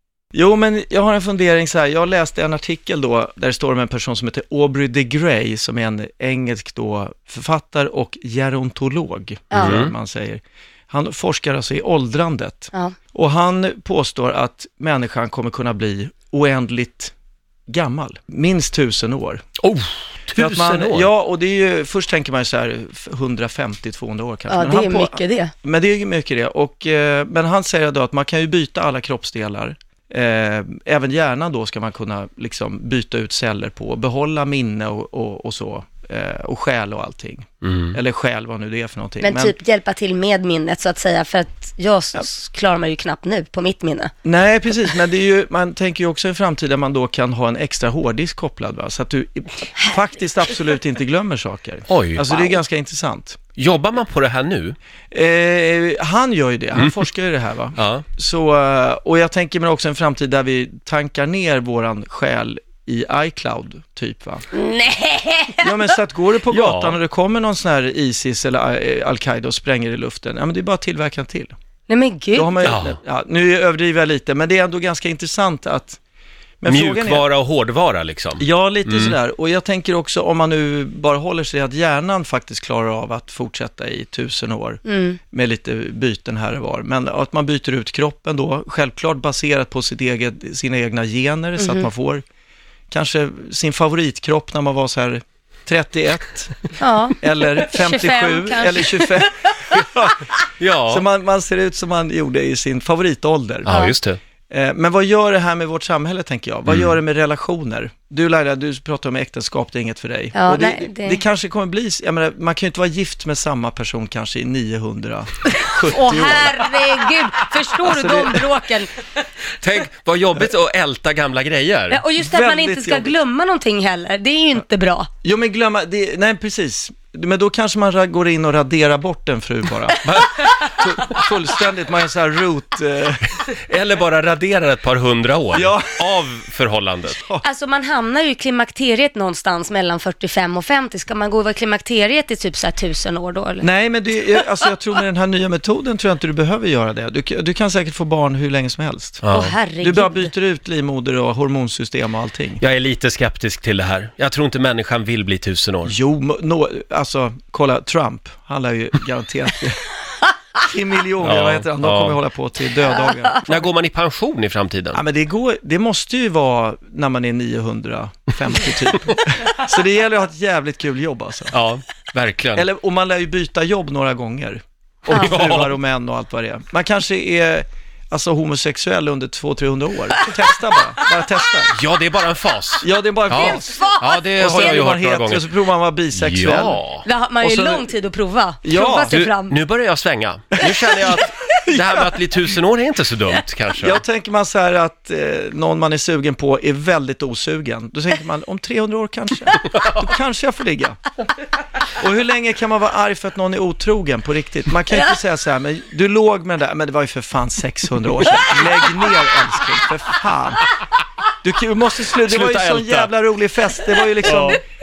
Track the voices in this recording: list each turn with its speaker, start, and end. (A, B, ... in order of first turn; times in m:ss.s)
0:00.3-0:17.1 A
0:09.5-0:09.8 B
0:09.6-0:09.9 C
0:17.7-0:19.4 A
0:19.6-0:21.1 C
0:20.3-0:39.5 A
0:24.5-0:25.5 B
0:37.6-0:37.9 C
0:39.2-0:44.1 B
0:44.2-0:53.4 A
0:51.9-0:52.5 C
0:53.5-0:54.8 C
0:55.1-1:04.5 A
0:57.8-0:58.0 C
1:04.5-1:05.9 B
1:05.6-1:11.5 A
1:06.5-1:07.0 C
1:11.9-1:12.6 B
1:12.3-1:16.0 A
1:12.6-1:13.0 C
1:16.6-1:17.2 A
1:16.7-1:19.2 C
1:18.4-1:32.2 A
1:24.8-1:25.2 B
1:31.6-1:31.9 B
1:32.9-1:36.6 A
1:36.8-1:39.1 B
1:37.2-1:40.3 A
1:40.6-1:41.0 C
1:40.9-1:43.7 A
1:43.6-1:44.2 C
1:43.7-1:44.0 B
1:44.5-1:56.7 A
1:46.7-1:46.9 C
1:50.3-1:51.2 B
1:55.8-1:58.9 B
1:57.8-1:58.4 A
1:59.6-2:02.0 C
2:01.9-2:05.1 B
2:02.2-2:03.2 A
2:05.2-2:13.3 A
2:10.0-2:10.5 C
2:13.5-2:17.2 C
2:15.5-2:16.2 A
2:17.1-2:17.4 A
2:17.4-2:23.7 B
2:23.6-2:29.2 A
2:29.2-2:29.6 C
2:29.3-2:30.3 B
2:29.8-2:32.6 A
2:32.6-2:35.9 C
2:35.8-2:39.8 A
2:40.6-2:43.7 A
2:41.2-2:42.2 C
2:43.4-2:45.0 C
2:44.9-2:51.6 A
2:51.5-2:52.6 C
2:52.5-3:01.8 A
2:55.1-2:55.7 C
3:01.7-3:05.5 C
3:02.8-3:06.8 A
3:03.3-3:04.9 B
3:06.1-3:07.0 C
3:07.0-3:09.6 B
3:07.4-3:07.9 A
3:08.6-3:09.2 A
3:09.1-3:14.0 C
3:10.6-3:12.4 A
3:13.8-3:21.0 A
3:21.9-3:30.6 A
3:31.4-3:34.6 A
3:32.2-3:33.1 C
3:34.2-3:34.6 C